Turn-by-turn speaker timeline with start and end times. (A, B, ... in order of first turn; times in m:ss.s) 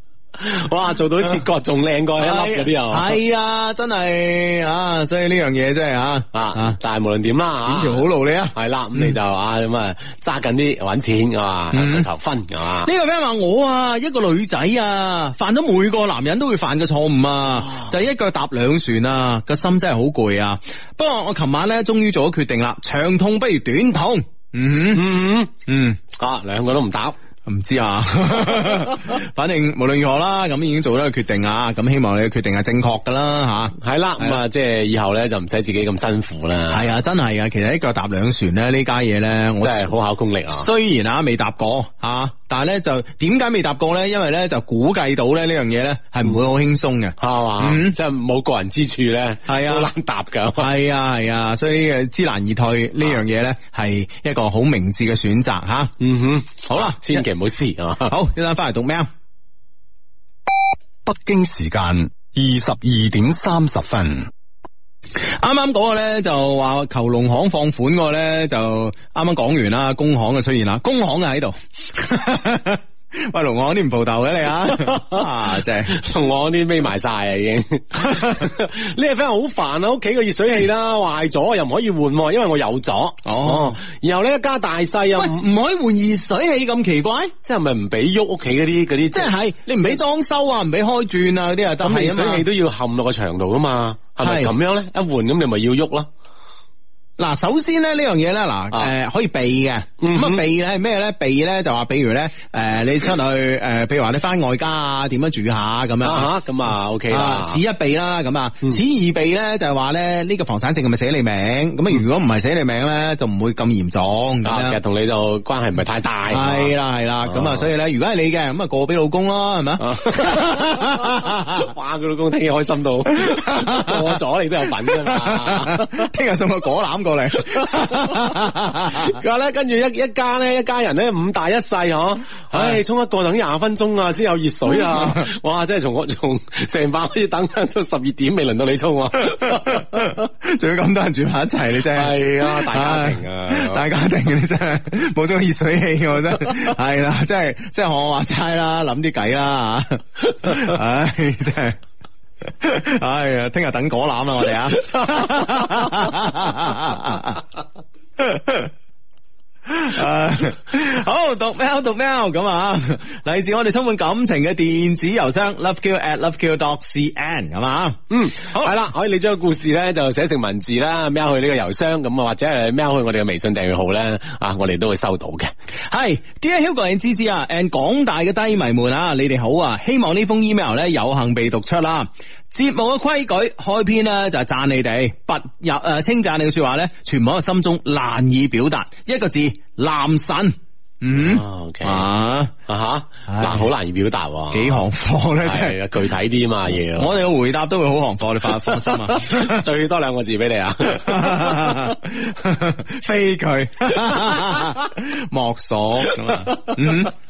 0:00.4-0:03.2 A
0:02.2-0:06.8 B
0:06.3-0:12.9 A
0:07.7-0:09.1 B
0:11.7-0:12.1 B
0:12.8-0:26.0 B
0:24.9-0:25.5 A
0:26.1-0:27.2 A
0:27.5-0:34.4 B
0:33.8-0:36.9 A
0:36.7-0:39.9 B
0:39.6-0:40.7 A
0:40.5-0:48.0 B
0:47.2-0:50.7 A
0:49.5-0:49.9 B
0:50.6-0:55.9 B
0:56.0-0:58.2 A
0:56.7-0:57.2 B
0:58.1-0:59.1 B
1:01.1-1:04.3 C
1:05.3-1:16.0 B
1:14.7-1:15.3 A
1:15.9-1:25.4 A
1:18.1-1:18.3 B
1:23.2-1:23.8 B
1:25.2-1:27.3 B
1:27.4-1:29.3 A
1:29.1-1:32.5 B
1:31.8-1:36.1 A
1:34.2-1:34.5 B
1:37.2-1:46.3 B
1:40.0-1:40.4 A
1:46.0-1:47.6 A
1:47.1-1:54.8 B
1:54.4-1:56.7 A
1:56.3-2:01.7 B
1:57.2-1:57.7 A
1:59.8-2:06.1 A
2:03.2-2:04.0 B
2:04.8-2:09.2 B
2:07.6-2:20.1 A
2:12.5-2:12.8 B
2:14.7-2:15.3 B
2:19.3-2:31.8 B
2:21.8-2:23.8 A
2:32.6-2:37.4 B
2:38.2-2:38.7 B
2:39.7-2:48.8 B
2:48.1-2:55.5 A
2:55.9-3:12.5 B
3:11.2-3:12.1 A
3:12.7-3:14.8 A
3:13.3-3:13.7 B
3:14.5-3:15.8 B
3:15.4-3:17.2 A
3:16.9-3:19.6 B
3:18.6-3:21.9 A
3:20.9-3:27.1 B
3:24.0-3:24.7 A
3:26.1-3:27.1 A